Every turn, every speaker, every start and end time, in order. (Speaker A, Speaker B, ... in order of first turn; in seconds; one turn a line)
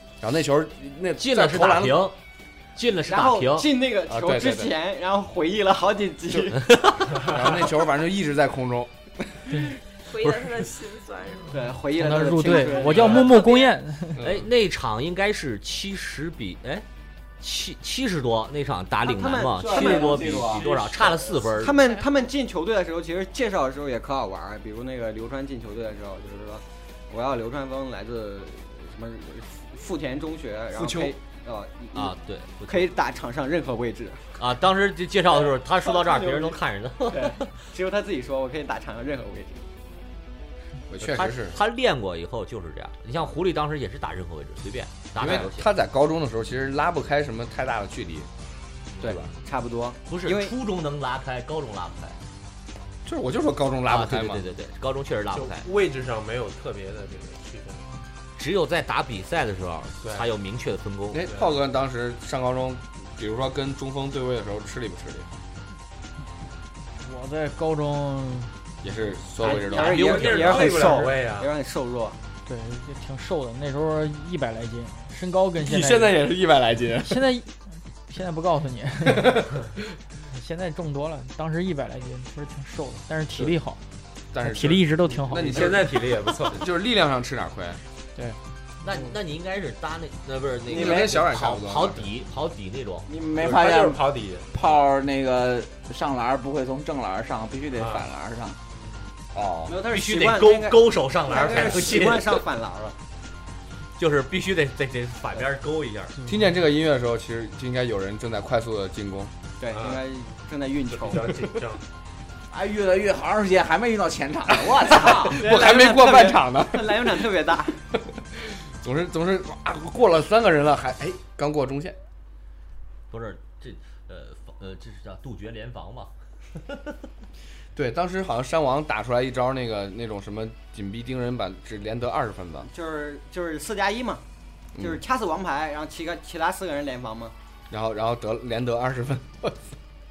Speaker A: 0.2-2.1
Speaker B: 1.2-2.2
Speaker B: 2.8-3.7
Speaker C: 3.1-6.8
Speaker A: 4.1-4.7
Speaker B: 6.7-7.1
Speaker A: 7.2-9.7
Speaker D: 10.1-11.6
Speaker C: 11.5-13.4
Speaker E: 12.0-14.2
Speaker D: 12.5-13.8
Speaker F: 12.9-13.2
Speaker A: 14.2-14.5
Speaker B: 14.2-16.9
Speaker B: 17.4-21.8
Speaker C: 19.0-32.2
Speaker G: 19.5-20.7
Speaker D: 21.7-22.0
Speaker A: 30.7-31.1
Speaker B: 31.9-33.0
Speaker C: 32.7-34.4
Speaker B: 34.4-37.5
Speaker C: 35.3-39.6
Speaker A: 40.9-41.6
Speaker B: 41.0-45.7
Speaker A: 45.2-48.3
Speaker C: 49.0-50.5
Speaker B: 50.1-52.2
Speaker A: 53.0-54.5
Speaker B: 53.9-55.7
Speaker F: 55.3-57.9
Speaker B: 58.4-61.2
Speaker A: 61.1-65.3
Speaker E: 67.0-68.5
Speaker A: 68.8-70.1
Speaker F: 69.4-71.5
Speaker C: 69.5-72.2
Speaker B: 70.1-70.8
Speaker E: 72.5-76.2
Speaker A: 75.6-77.2
Speaker E: 77.0-77.5
Speaker E: 78.1-79.5
Speaker A: 79.0-79.7
Speaker E: 80.3-83.8
Speaker A: 84.3-87.8
Speaker E: 84.4-85.8
Speaker F: 85.3-86.7
Speaker B: 88.8-93.1
Speaker A: 90.7-92.1
Speaker G: 93.1-98.6
Speaker F: 93.4-94.5
Speaker F: 97.8-98.1
Speaker A: 99.3-99.8
Speaker C: 99.7-103.0
Speaker B: 99.9-102.5
Speaker B: 104.0-106.1
Speaker A: 106.3-109.3
Speaker C: 109.6-111.4
Speaker F: 109.7-110.0
Speaker F: 110.9-111.8
Speaker G: 112.5-115.4
Speaker A: 114.7-117.3
Speaker C: 115.3-117.8
Speaker A: 118.3-122.0
Speaker B: 123.1-126.1
Speaker A: 127.8-132.7
Speaker C: 132.7-134.2
Speaker A: 134.8-135.0
Speaker C: 134.8-137.3
Speaker A: 137.7-139.7